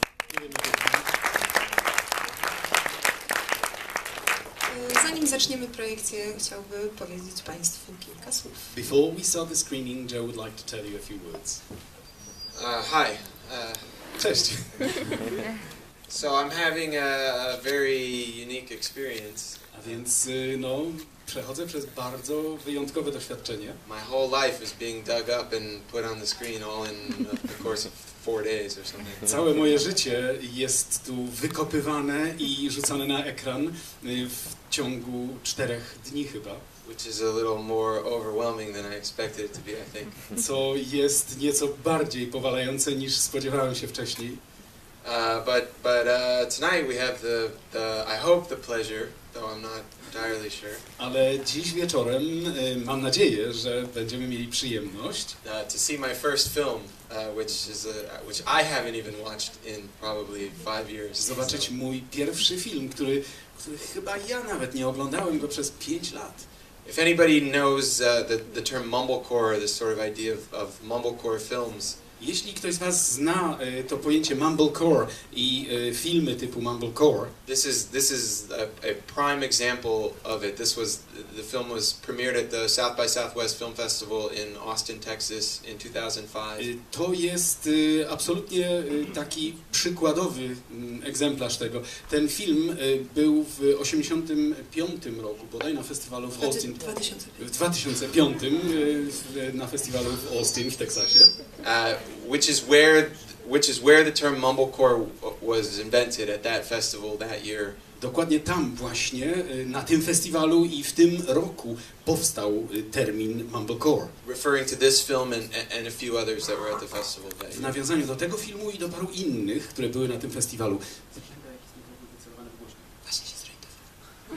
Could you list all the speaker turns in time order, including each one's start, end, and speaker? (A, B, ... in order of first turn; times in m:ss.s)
0:00.3-0:01.3 A
0:04.6-0:08.7 B
0:08.7-0:11.6 A
0:12.5-0:14.2 C
0:14.2-0:15.2 A
0:16.1-0:20.0 C
0:19.7-0:23.8 A
0:23.8-0:29.4 C
0:29.2-0:36.6 A
0:36.8-0:40.3 C
0:40.3-0:44.4 A
0:45.0-0:50.8 C
0:51.0-0:55.4 A
0:55.4-1:01.7 C
1:01.2-1:06.5 A
1:06.8-1:12.0 C
1:12.2-1:17.3 A
1:17.4-1:26.7 C
1:26.6-1:41.3 A
1:36.3-1:37.4 B
1:41.6-1:47.8 C
1:48.0-1:54.1 A
1:54.2-1:57.8 C
1:57.5-2:03.0 A
2:03.1-2:03.7 B